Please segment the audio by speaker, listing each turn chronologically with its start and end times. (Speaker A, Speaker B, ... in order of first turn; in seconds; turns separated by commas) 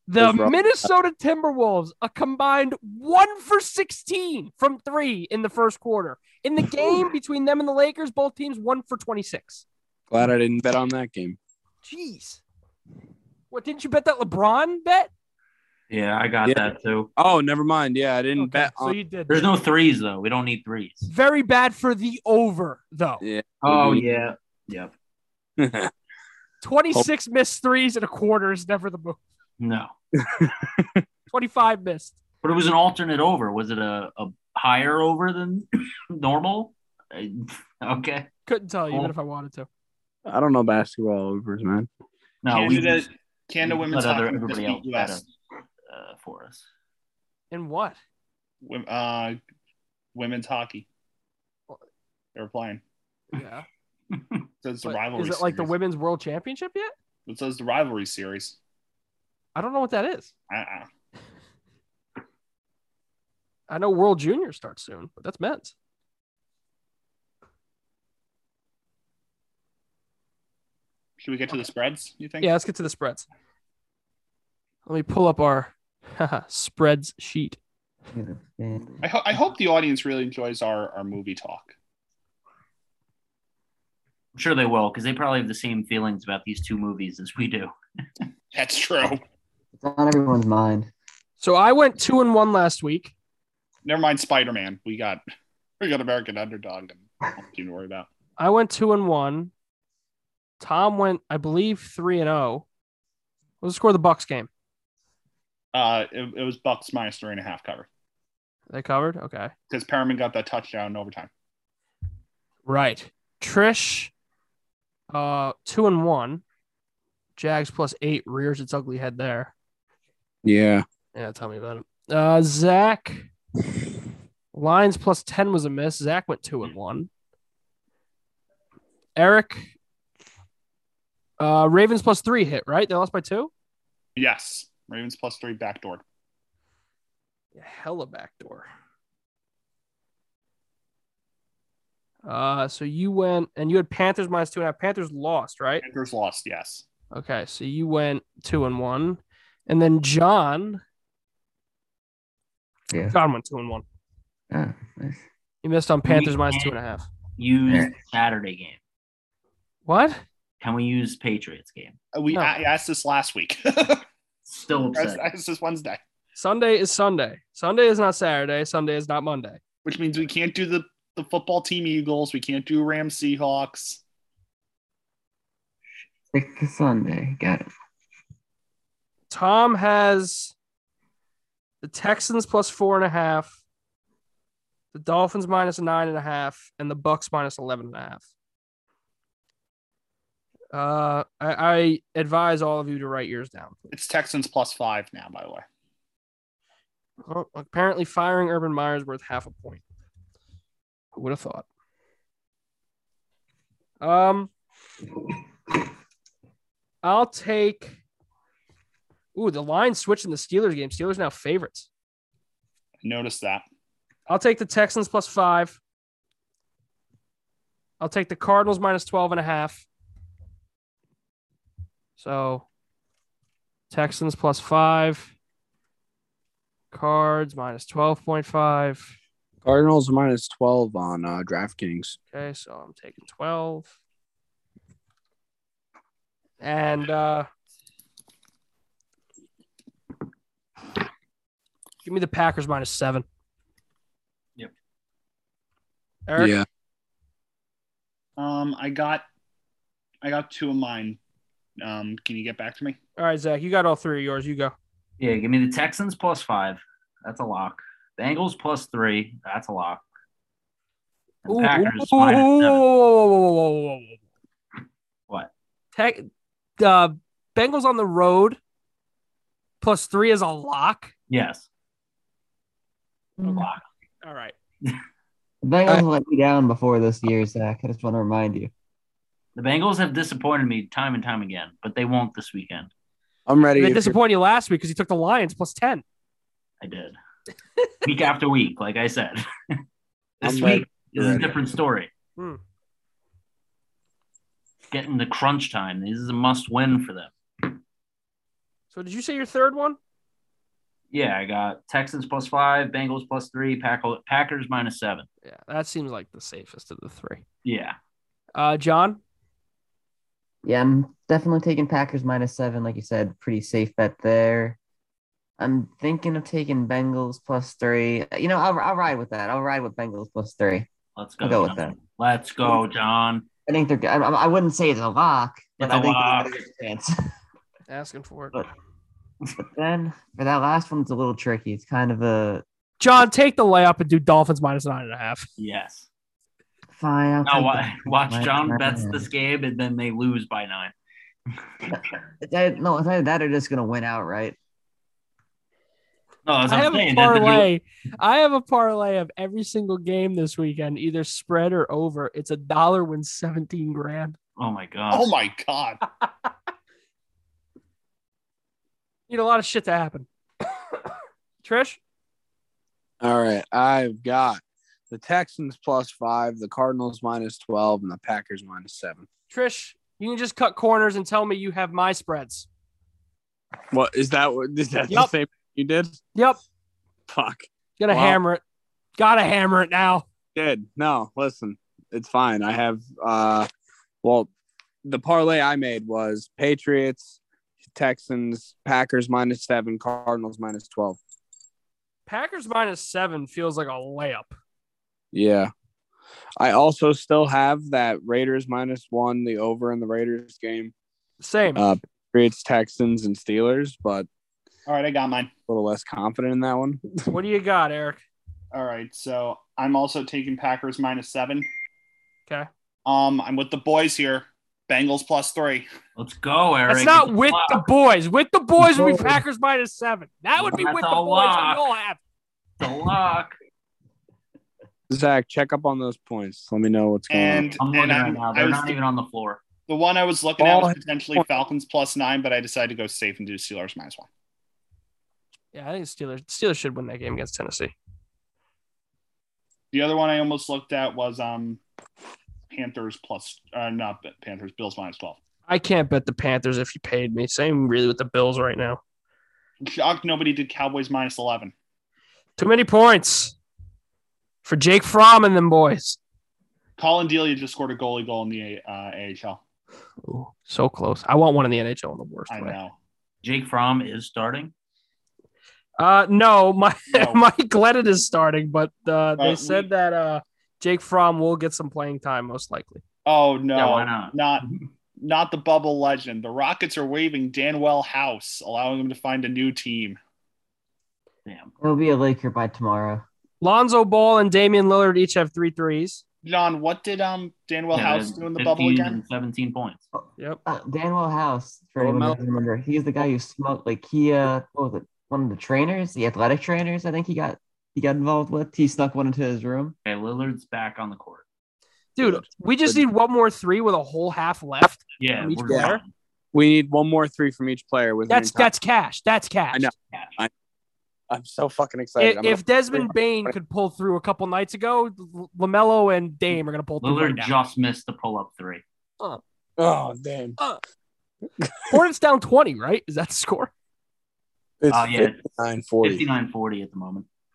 Speaker A: 0.1-9.6, Speaker B: 0.2-0.6, Speaker B: 10.1-11.4, Speaker A: 11.8-12.4, Speaker A: 13.5-15.1, Speaker C: 15.9-17.1, Speaker B: 16.4-19.0, Speaker A: 18.4-19.5, Speaker C: 19.3-21.1, Speaker A: 21.1-23.2, Speaker B: 23.2-24.1, Speaker C: 23.6-24.9, Speaker B: 25.6-25.9, Speaker A: 26.6-29.2, Speaker C: 29.6-29.9, Speaker B: 30.2-31.0, Speaker A: 31.3-32.2, Speaker C: 32.4-38.3, Speaker A: 38.5-39.7, Speaker B: 40.3-41.9, Speaker C: 42.4-43.1, Speaker D: 42.5-45.2, Speaker C: 43.6-45.3, Speaker C: 45.9-46.7, Speaker A: 47.5-48.0, Speaker D: 48.6-49.4, Speaker D: 50.1-50.9, Speaker D: 52.4-52.8, Speaker A: 53.3-53.7, Speaker D: 54.6-55.7, Speaker A: 54.8-56.9, Speaker D: 57.3-58.6, Speaker A: 59.5-60.3, Speaker D: 60.5-60.9, Speaker A: 63.7-65.7, Speaker D: 71.2-72.5, Speaker A: 72.4-73.3, Speaker A: 74.9-77.6, Speaker E: 78.1-79.0, Speaker D: 79.0-81.7, Speaker C: 84.3-87.7, Speaker D: 88.5-89.2, Speaker E: 89.8-90.9, Speaker A: 91.4-93.1, Speaker D: 93.8-95.2, Speaker D: 95.8-98.1, Speaker A: 98.4-99.5, Speaker A: 100.6-102.7, Speaker A: 103.6-104.5, Speaker D: 105.7-107.9, Speaker A: 108.7-109.5, Speaker D: 109.7-111.3, Speaker A: 112.7-114.1, Speaker A: 115.1-116.4, Speaker A: 117.4-119.5, Speaker B: 120.4-120.8, Speaker A: 121.2-123.3, Speaker A: 124.5-127.1, Speaker A: 129.2-129.7, Speaker A: 131.4-133.5, Speaker D: 134.2-136.0, Speaker A: 137.6-138.7, Speaker A: 142.2-145.8, Speaker D: 145.8-146.8, Speaker A: 147.1-150.8, Speaker E: 152.9-153.2, Speaker A: 153.1-153.8, Speaker E: 154.5-155.2, Speaker A: 155.6-157.1, Speaker C: 156.1-156.7, Speaker C: 157.4-158.8, Speaker A: 159.9-160.2, Speaker C: 160.6-162.0, Speaker D: 162.1-164.1, Speaker A: 162.3-162.6, Speaker C: 164.5-165.2, Speaker D: 164.9-166.0, Speaker A: 166.4-169.6, Speaker D: 169.8-174.0, Speaker E: 176.3-177.7, Speaker A: 179.3-180.5, Speaker A: 181.8-183.6, Speaker A: 184.9-188.2, Speaker A: 190.7-193.8, Speaker D: 193.9-195.7, Speaker A: 197.3-199.8, Speaker A: 201.2-201.7, Speaker A: 204.0-204.5, Speaker A: 207.0-208.0, Speaker A: 209.3-211.9, Speaker D: 213.0-213.7, Speaker A: 214.3-215.8, Speaker A: 218.0-219.9, Speaker A: 222.2-222.7, Speaker A: 223.9-225.3, Speaker A: 226.9-229.1, Speaker B: 229.6-232.2, Speaker A: 232.3-233.9, Speaker A: 236.6-237.5, Speaker A: 242.0-243.2, Speaker A: 246.3-246.6, Speaker B: 246.4-246.7, Speaker D: 248.4-249.2, Speaker D: 250.2-251.2, Speaker D: 251.8-253.0, Speaker A: 253.2-254.7, Speaker C: 255.2-260.1, Speaker C: 261.4-262.8, Speaker A: 261.5-264.2, Speaker A: 265.9-268.6, Speaker A: 269.8-271.1, Speaker C: 271.3-271.7, Speaker E: 273.4-273.7, Speaker A: 273.4-273.7, Speaker A: 274.2-274.6, Speaker E: 275.6-278.7, Speaker C: 279.6-282.9, Speaker B: 283.5-284.2, Speaker A: 283.8-286.0, Speaker C: 286.8-287.2, Speaker C: 288.0-289.8, Speaker C: 290.4-292.1, Speaker B: 290.4-291.5, Speaker C: 294.9-297.8, Speaker A: 298.9-300.0, Speaker C: 301.1-305.3, Speaker A: 305.4-307.4, Speaker C: 307.6-308.0, Speaker A: 308.6-309.2, Speaker E: 310.6-314.8, Speaker E: 315.6-320.9, Speaker C: 321.2-323.5, Speaker E: 321.4-321.9, Speaker E: 323.7-327.2, Speaker C: 325.8-326.6, Speaker A: 327.9-328.6, Speaker E: 329.6-332.6, Speaker A: 333.0-335.5, Speaker C: 335.6-336.1, Speaker E: 336.9-339.3, Speaker C: 337.4-340.9, Speaker E: 341.9-344.6, Speaker C: 346.5-347.7, Speaker A: 346.7-354.4, Speaker C: 354.6-355.3, Speaker D: 355.1-356.0, Speaker A: 359.3-360.3, Speaker A: 361.6-362.0, Speaker B: 363.2-369.3, Speaker A: 369.5-372.7, Speaker B: 373.9-376.2, Speaker B: 377.3-378.4, Speaker A: 378.0-378.6, Speaker A: 379.2-380.3, Speaker B: 380.6-383.7, Speaker B: 384.2-384.5, Speaker B: 385.1-391.2, Speaker A: 392.3-394.6, Speaker B: 395.3-395.7, Speaker B: 396.6-400.9, Speaker A: 401.4-401.9, Speaker B: 401.8-404.3, Speaker D: 404.9-405.5, Speaker B: 405.7-407.3, Speaker A: 407.3-408.2, Speaker D: 408.7-411.7, Speaker D: 413.1-415.9, Speaker C: 416.2-417.9, Speaker A: 416.9-422.2, Speaker E: 418.9-419.3, Speaker C: 420.6-421.9, Speaker C: 422.8-423.6, Speaker B: 425.1-427.7, Speaker D: 427.3-429.0, Speaker C: 427.8-429.6, Speaker D: 429.9-434.3, Speaker B: 430.6-431.5, Speaker A: 435.7-437.9, Speaker D: 439.9-441.8, Speaker D: 442.7-445.4, Speaker A: 445.7-449.0, Speaker D: 449.9-451.7, Speaker A: 452.6-453.6, Speaker A: 454.6-456.2, Speaker D: 457.0-459.6, Speaker A: 460.2-462.8, Speaker D: 462.5-463.0, Speaker C: 463.4-464.7, Speaker A: 466.0-473.0, Speaker D: 467.1-467.4, Speaker D: 469.4-469.9, Speaker D: 473.3-474.7, Speaker C: 473.8-474.9, Speaker D: 475.2-480.2, Speaker C: 481.5-481.7, Speaker E: 481.8-483.2, Speaker A: 483.6-486.2, Speaker D: 486.4-489.2, Speaker C: 487.9-490.0, Speaker E: 490.6-499.9, Speaker B: 492.0-492.4, Speaker C: 500.1-501.4, Speaker A: 502.2-506.0, Speaker B: 502.2-503.0, Speaker C: 505.2-506.1, Speaker B: 505.7-506.0, Speaker B: 506.5-508.7, Speaker A: 508.3-509.9, Speaker B: 509.7-510.5, Speaker B: 511.3-513.5, Speaker A: 512.2-517.5, Speaker C: 517.0-518.8, Speaker B: 519.8-520.6, Speaker B: 521.6-522.0, Speaker A: 521.9-523.7, Speaker B: 524.8-526.3, Speaker C: 524.9-525.4, Speaker C: 526.0-527.2